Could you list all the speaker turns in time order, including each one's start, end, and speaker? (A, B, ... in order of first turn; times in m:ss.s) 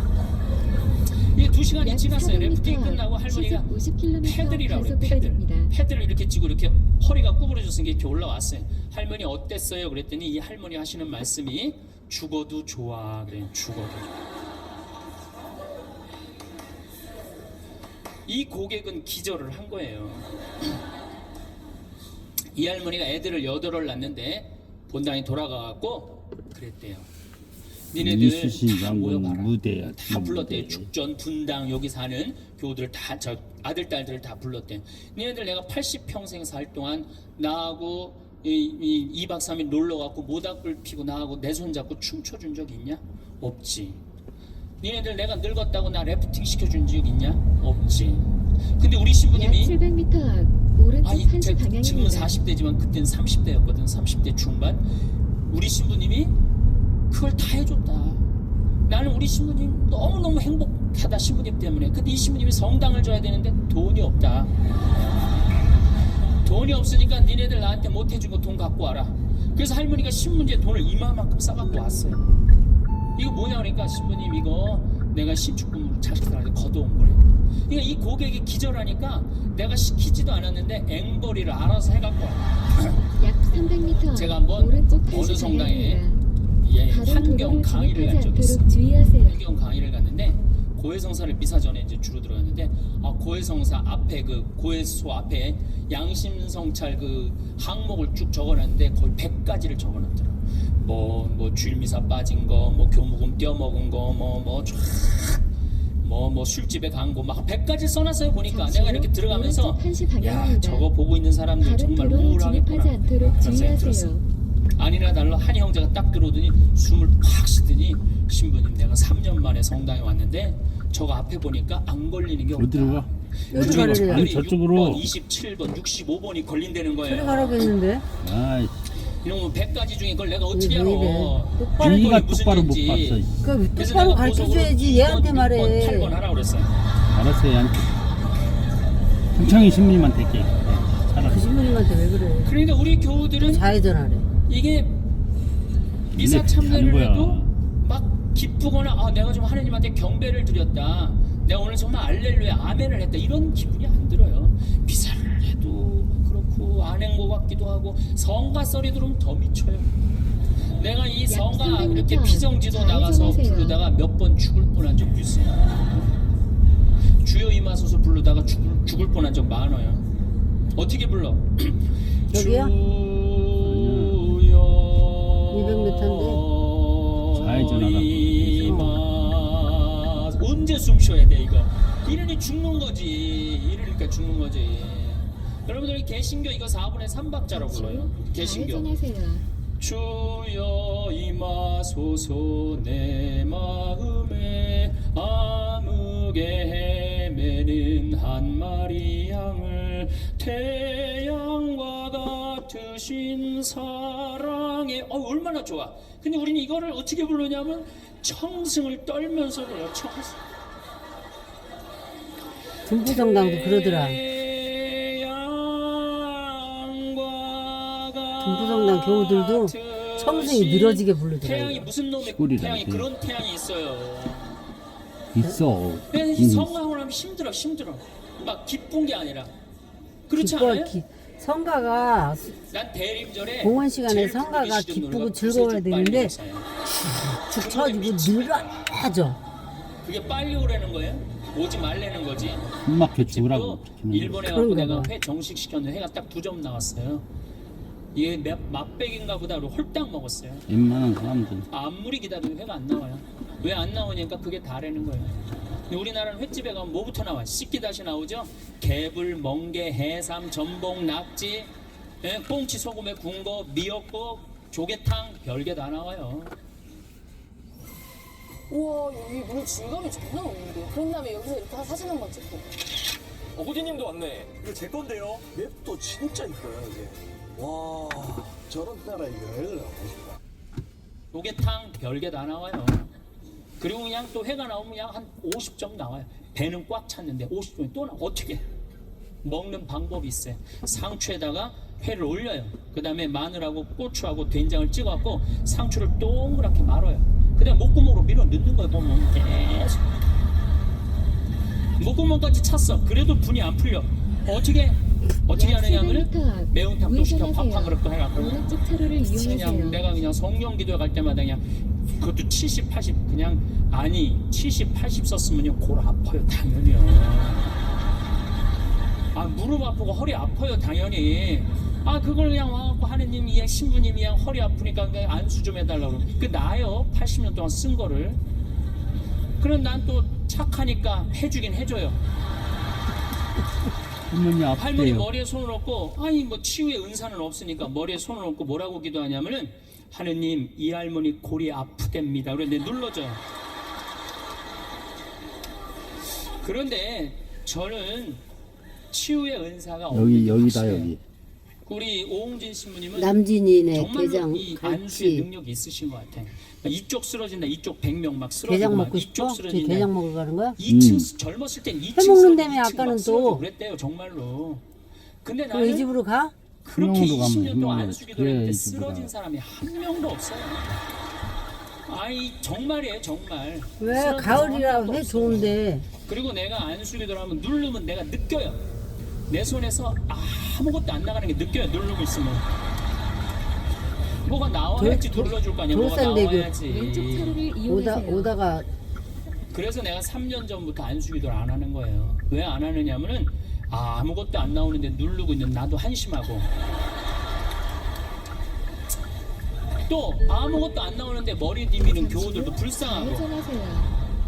0:01.3-0:03.7 A
0:01.8-0:05.7 B
0:04.2-0:14.2 A
0:18.3-0:20.3 A
0:22.6-0:27.1 A
0:27.9-0:44.0 A
0:28.0-0:30.9 C
0:44.8-0:49.8 A
0:49.3-0:52.3 B
0:51.0-0:54.8 A
0:55.5-0:56.4 A
0:57.1-0:58.3 A
0:58.9-1:04.5 A
1:06.4-1:12.2 A
1:13.2-1:23.0 A
1:23.2-1:26.2 B
1:24.1-1:26.0 A
1:26.6-1:28.7 A
1:26.9-1:29.4 B
1:29.2-1:45.4 A
1:46.0-1:54.1 A
1:48.5-1:50.9 B
1:51.6-1:54.2 B
1:54.8-2:07.7 A
2:02.6-2:05.1 C
2:03.5-2:04.3 D
2:07.1-2:08.1 D
2:08.2-2:08.8 C
2:09.2-2:13.2 A
2:10.5-2:12.1 D
2:11.8-2:13.4 C
2:13.4-2:16.2 D
2:13.8-2:16.7 A
2:17.1-2:18.0 C
2:19.3-2:21.5 C
2:21.3-2:22.5 D
2:22.4-2:23.7 A
2:23.4-2:24.3 D
2:24.5-2:25.0 A
2:26.1-2:27.5 C
2:26.1-2:39.9 A
2:40.8-2:46.1 A
2:41.3-2:43.8 B
2:47.2-2:50.0 A
2:50.8-3:08.9 A
2:52.3-2:52.7 D
2:53.6-2:54.2 C
2:55.5-2:56.4 D
2:57.3-2:58.8 C
2:58.6-2:59.0 D
3:07.5-3:09.5 B
3:09.8-3:30.4 A
3:32.9-3:34.2 D
3:33.0-3:44.6 A
3:38.4-3:41.9 D
3:42.2-3:43.1 C
3:45.3-3:46.8 C
3:46.1-3:49.6 A
3:50.3-3:51.0 A
3:50.4-3:52.6 D
3:52.7-3:56.7 A
3:53.6-3:56.4 D
3:57.4-3:59.4 D
3:57.5-3:59.1 A
4:00.0-4:07.3 A
4:02.8-4:04.5 C
4:04.4-4:05.1 D
4:08.1-4:10.7 A
4:10.7-4:11.7 C
4:11.7-4:26.6 A
4:28.7-4:32.7 E
4:33.6-4:40.4 F
4:41.3-4:43.1 A
4:43.8-4:48.6 A
4:49.4-5:00.2 A
5:02.0-5:08.6 A
5:05.5-5:10.0 B
5:09.2-5:17.8 A
5:19.3-5:28.4 A
5:29.6-5:32.2 A
5:34.3-5:35.3 C
5:34.8-5:43.4 A
5:46.3-5:48.4 A
5:49.1-5:51.2 A
5:50.1-5:51.2 C
5:51.9-5:53.4 A
5:53.2-5:55.5 D
5:53.9-6:00.1 A
5:58.7-6:00.8 D
6:00.8-6:04.8 A
6:00.9-6:01.3 C
6:02.2-6:03.6 D
6:05.4-6:06.1 A
6:05.7-6:06.5 D
6:06.8-6:11.0 A
6:06.9-6:09.3 C
6:12.1-6:18.8 A
6:14.0-6:16.1 D
6:19.5-6:22.7 A
6:24.4-6:27.6 A
6:25.0-6:26.7 D
6:26.9-6:28.5 B
6:27.9-6:28.9 D
6:29.7-6:36.7 A
6:40.1-6:43.5 A
6:42.0-6:44.2 B